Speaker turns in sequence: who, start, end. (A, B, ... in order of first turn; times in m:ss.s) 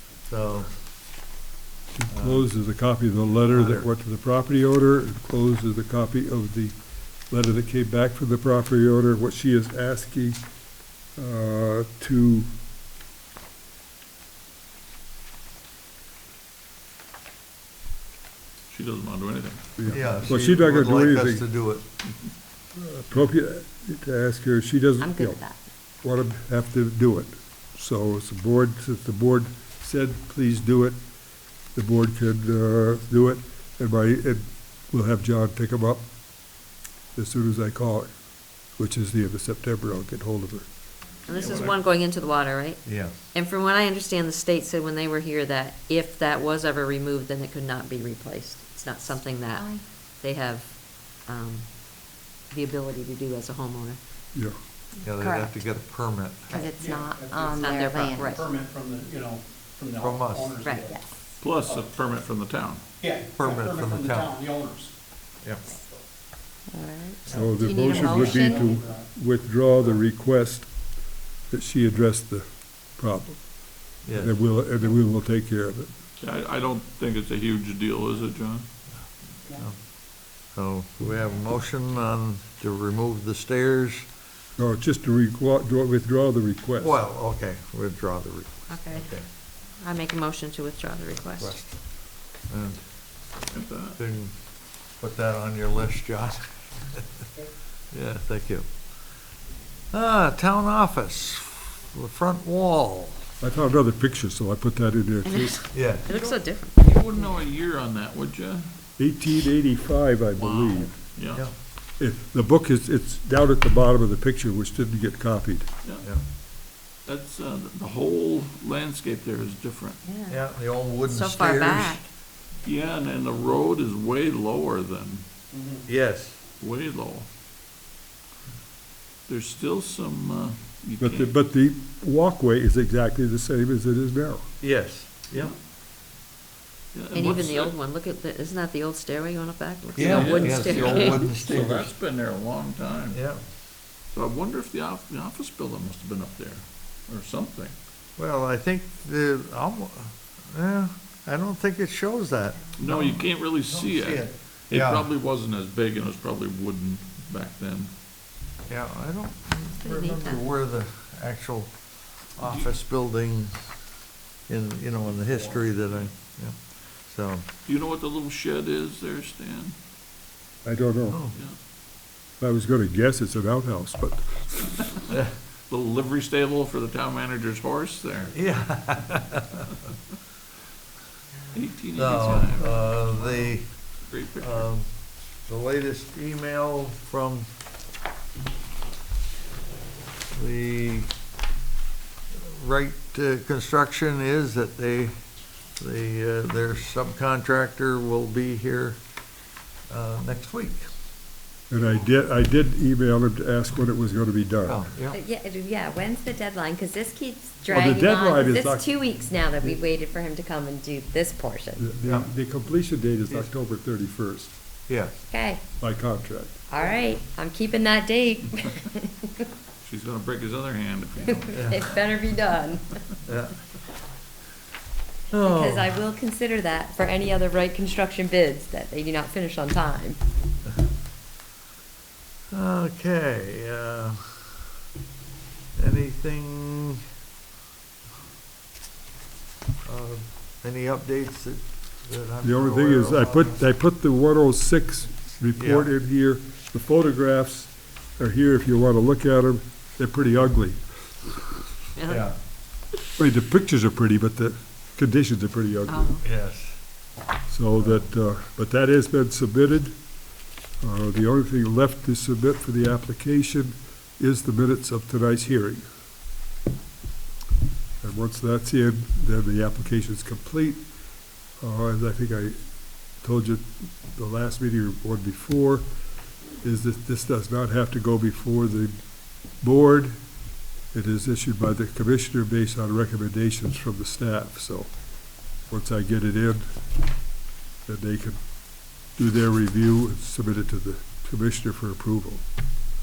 0:00.2-0:00.7 A
0:01.9-0:06.8 B
0:02.1-0:02.4 A
0:03.3-0:03.8 A
0:07.3-0:10.4 B
0:11.2-0:12.5 B
0:18.7-0:19.6 C
0:19.8-0:21.5 B
0:19.8-0:21.8 A
0:22.7-0:25.4 B
0:25.0-0:25.6 D
0:26.0-0:31.0 B
0:31.7-0:36.0 B
0:37.2-0:38.1 B
0:38.8-0:40.7 B
0:41.3-0:49.7 E
0:41.4-0:41.7 A
0:42.8-0:43.1 A
0:49.5-0:49.8 D
0:50.2-0:51.7 E
0:52.5-0:54.0 E
0:55.0-0:56.6 A
0:55.2-0:55.5 D
0:56.5-0:58.3 D
0:56.5-1:01.0 F
0:57.5-0:58.5 E
1:00.0-1:00.6 A
1:00.6-1:00.9 E
1:00.9-1:01.2 D
1:01.4-1:02.8 C
1:01.6-1:01.9 F
1:03.0-1:04.9 F
1:03.4-1:04.3 A
1:06.7-1:08.7 D
1:07.3-1:10.7 B
1:07.4-1:09.1 F
1:11.5-1:13.5 B
1:14.0-1:14.3 A
1:14.1-1:15.9 B
1:16.2-1:18.7 C
1:19.5-1:19.8 A
1:20.5-1:24.0 A
1:24.6-1:27.0 B
1:26.8-1:29.2 A
1:28.7-1:29.1 E
1:29.8-1:31.6 E
1:31.4-1:31.8 A
1:32.4-1:32.8 A
1:33.5-1:34.0 C
1:34.0-1:34.3 A
1:35.0-1:37.0 A
1:37.9-1:38.7 A
1:39.9-1:43.2 A
1:43.4-1:45.8 B
1:45.4-1:46.6 E
1:45.7-1:46.1 A
1:46.1-1:46.7 D
1:46.1-1:48.7 C
1:49.0-1:50.9 B
1:50.4-1:51.4 C
1:52.0-1:55.7 B
1:55.8-1:56.1 C
1:57.0-2:00.0 C
2:00.0-2:00.4 E
2:00.3-2:02.0 A
2:01.0-2:02.0 E
2:02.6-2:05.2 C
2:05.5-2:05.8 F
2:05.8-2:06.4 A
2:06.6-2:07.3 C
2:09.3-2:11.3 C
2:11.0-2:14.4 B
2:14.6-2:15.5 A
2:16.9-2:17.7 C
2:17.1-2:21.3 E
2:19.9-2:21.9 A
2:20.0-2:23.2 C
2:23.1-2:23.4 A
2:24.1-2:27.7 C
2:28.2-2:35.1 A
2:32.8-2:37.9 C
2:38.7-2:41.7 A
2:39.7-2:40.4 E
2:42.4-2:43.7 A
2:42.4-2:42.7 C
2:44.5-2:47.4 A
2:45.1-2:46.1 C
2:47.6-2:49.7 C
2:50.6-2:51.2 B
2:51.1-2:51.4 A
2:52.4-2:54.9 B
2:55.7-2:58.3 C
2:58.3-2:59.7 A
3:01.5-3:04.7 C
3:02.0-3:03.7 A
3:04.4-3:04.9 A
3:05.4-3:07.5 A
3:10.3-3:11.1 A
3:12.3-3:15.1 A
3:15.8-3:19.0 A
3:19.9-3:20.8 A
3:21.7-3:24.8 B
3:24.6-3:25.2 A
3:25.1-3:31.9 D
3:27.7-3:29.8 B
3:31.8-3:34.5 B
3:32.0-3:32.3 A
3:34.9-3:35.1 A
3:35.3-3:35.6 D
3:35.8-3:36.6 B
3:36.7-3:39.5 D
3:39.8-3:41.8 C
3:41.2-3:43.0 D
3:41.5-3:41.9 A
3:43.2-3:43.5 A
3:45.3-3:45.9 A
3:45.4-3:50.2 D
3:52.5-3:54.5 A
3:55.8-3:57.0 A
3:59.8-4:03.6 A
4:02.4-4:11.3 B
4:05.6-4:05.9 A
4:12.0-4:12.2 E
4:12.0-4:12.3 A
4:13.2-4:16.1 B
4:15.9-4:16.2 E
4:16.2-4:16.8 A
4:17.5-4:20.0 B
4:17.8-4:18.1 A
4:20.8-4:25.9 B
4:28.0-4:30.8 B
4:31.6-4:32.6 B
4:33.2-4:35.9 B
4:36.6-4:39.0 B
4:39.6-4:40.2 B
4:40.9-4:44.9 B
4:45.7-4:46.6 B
4:47.8-4:48.4 B
4:49.2-4:52.4 B